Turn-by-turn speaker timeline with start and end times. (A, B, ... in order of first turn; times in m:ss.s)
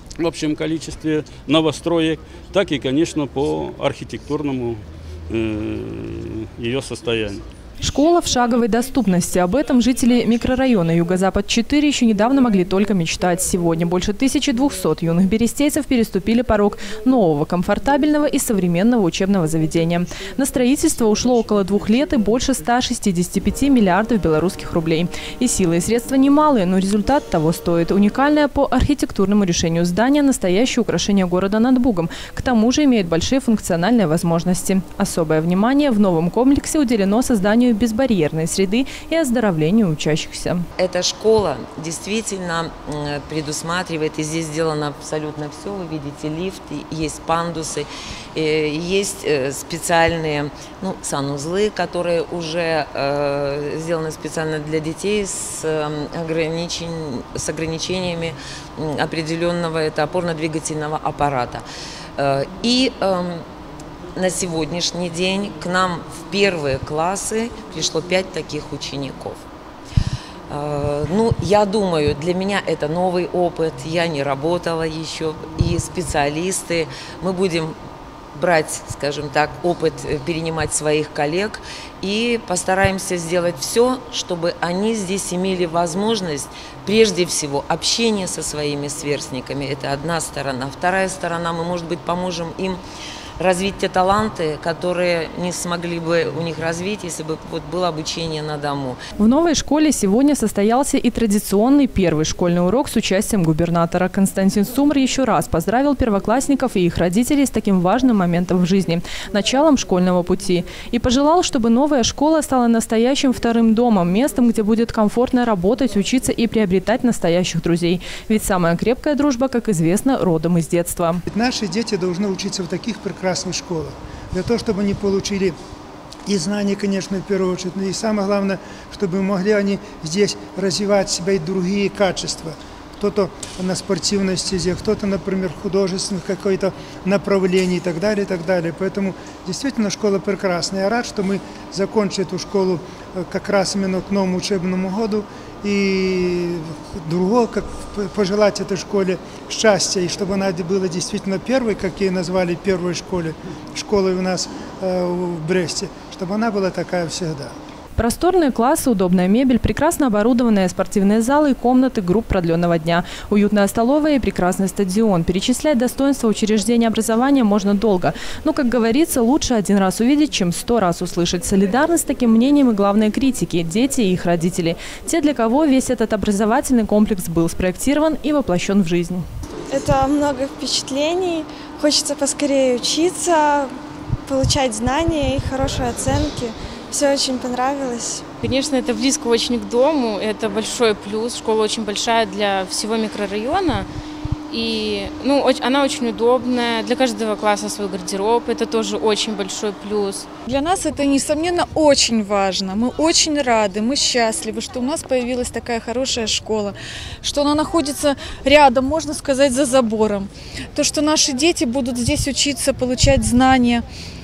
0:00.2-0:07.4 A
0:07.8-0:40.6 B
0:40.8-1:01.6 C
1:02.2-1:03.4 C
1:04.2-1:09.4 C
1:10.5-1:17.7 C
1:18.3-1:32.8 C
1:33.4-1:39.0 C
1:39.2-2:01.2 B
2:01.3-2:05.6 D
2:06.2-2:37.5 D
2:38.0-2:59.2 B
2:59.7-3:08.2 E
3:08.4-3:13.9 F
3:14.5-3:20.2 F
3:20.4-3:33.8 G